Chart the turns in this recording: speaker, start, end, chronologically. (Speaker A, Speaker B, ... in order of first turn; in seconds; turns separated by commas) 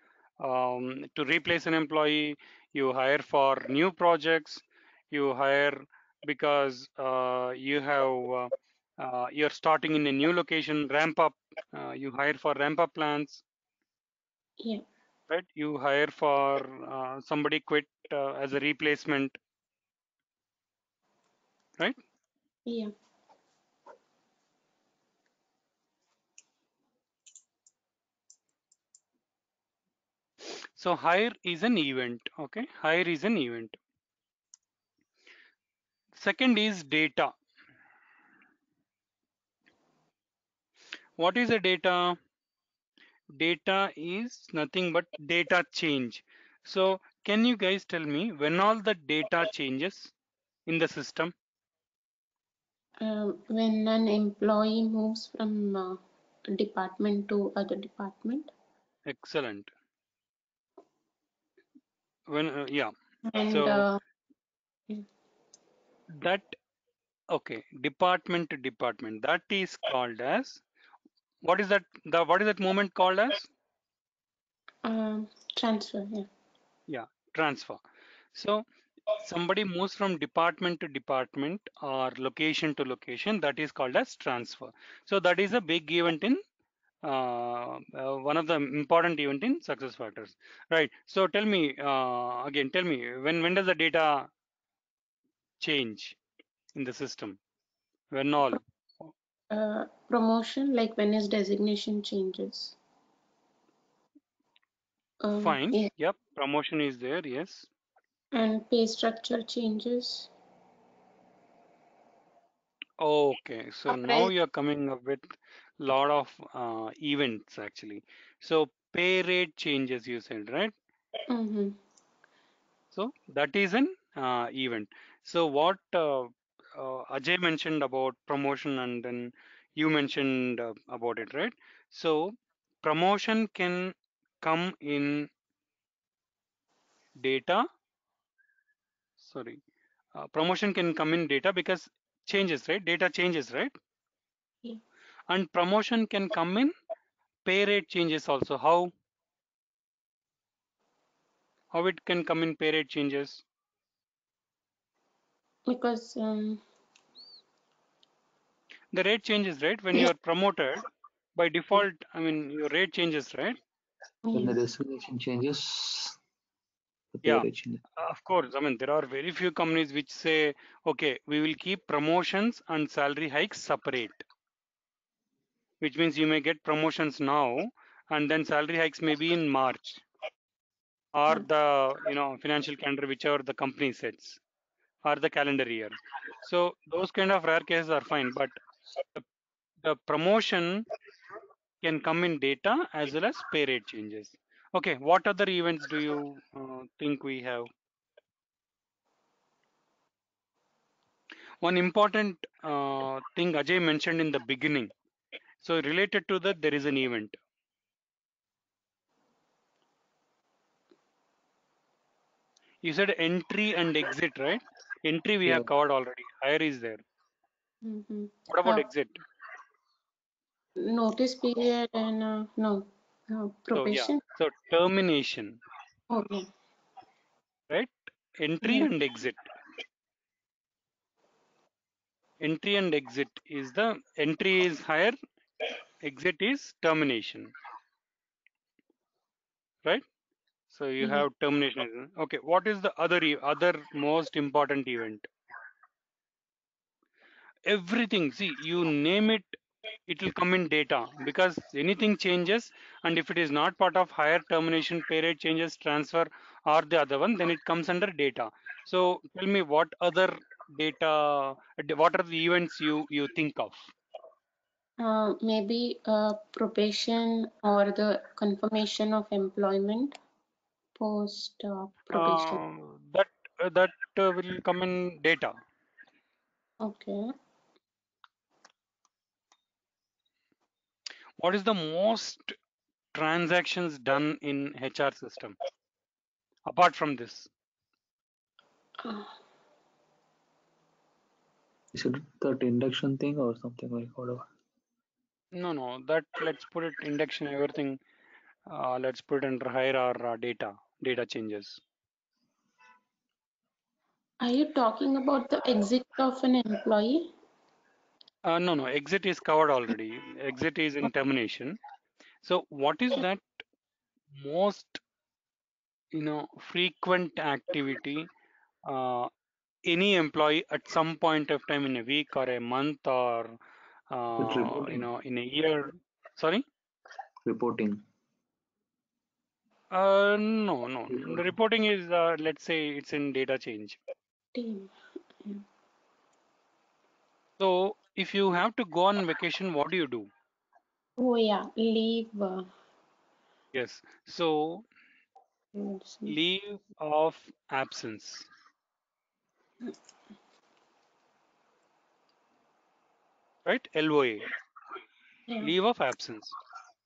Speaker A: 0.4-13.4, Speaker A: 15.3-19.4, Speaker B: 22.7-22.9, Speaker A: 30.8-33.8, Speaker A: 36.1-37.3, Speaker A: 41.2-42.2, Speaker A: 43.4-50.1, Speaker A: 50.7-51.3, Speaker B: 53.0-56.0, Speaker B: 56.5-58.5, Speaker A: 59.0-59.7, Speaker A: 62.3-62.9, Speaker B: 63.2-64.0, Speaker A: 63.5-63.9, Speaker A: 66.2-66.6, Speaker A: 67.3-70.6, Speaker A: 71.4-73.5, Speaker B: 74.8-76.3, Speaker A: 76.9-77.8, Speaker A: 78.3-78.6, Speaker A: 79.2-86.4, Speaker A: 87.0-94.3, Speaker A: 95.6-96.2, Speaker A: 96.7-97.4, Speaker A: 98.1-98.6, Speaker B: 99.5-102.8, Speaker B: 105.2-105.9, Speaker A: 105.4-107.7, Speaker B: 108.3-110.3, Speaker A: 113.0-120.7, Speaker B: 113.9-114.3, Speaker B: 121.3-121.8, Speaker A: 122.9-135.3, Speaker A: 137.2-137.6, Speaker A: 139.2-139.6, Speaker A: 140.1-143.8, Speaker A: 145.3-146.7, Speaker A: 147.4-148.9, Speaker A: 151.7-153.4, Speaker B: 155.7-156.6, Speaker A: 158.9-163.6, Speaker B: 164.2-164.6, Speaker C: 164.3-166.2, Speaker C: 167.1-167.8, Speaker A: 167.2-174.2, Speaker A: 175.8-180.0, Speaker A: 181.1-184.4, Speaker A: 185.0-188.6, Speaker A: 189.8-190.8, Speaker A: 191.8-197.7, Speaker A: 201.6-204.9, Speaker A: 205.6-207.4, Speaker A: 212.8-217.0, Speaker B: 217.8-218.8, Speaker A: 218.5-219.2, Speaker B: 220.8-224.2, Speaker A: 223.7-225.6, Speaker B: 226.1-226.5, Speaker A: 227.7-229.5, Speaker B: 228.6-228.9, Speaker A: 232.4-235.2, Speaker A: 236.0-237.5, Speaker A: 240.7-245.3, Speaker B: 241.0-241.2, Speaker A: 247.7-263.9, Speaker B: 265.0-270.2, Speaker B: 271.0-272.6, Speaker A: 272.1-275.6, Speaker B: 276.8-277.3, Speaker A: 281.4-282.5, Speaker A: 283.1-285.6, Speaker A: 286.6-287.5, Speaker B: 289.0-289.3, Speaker C: 291.9-294.5, Speaker A: 295.5-298.0, Speaker A: 298.7-301.8, Speaker B: 304.4-307.3, Speaker A: 308.4-311.8, Speaker A: 312.4-313.6, Speaker A: 314.3-315.0, Speaker A: 316.1-318.3, Speaker A: 318.8-319.3, Speaker A: 319.9-323.6, Speaker A: 324.1-326.6, Speaker C: 324.4-325.0, Speaker C: 327.4-328.0, Speaker A: 329.9-334.0, Speaker C: 331.1-331.4, Speaker B: 334.5-334.9, Speaker A: 337.6-340.3, Speaker B: 341.2-342.7, Speaker A: 343.7-344.9, Speaker B: 345.7-346.4, Speaker A: 346.2-348.5, Speaker A: 353.6-354.5, Speaker A: 355.6-356.5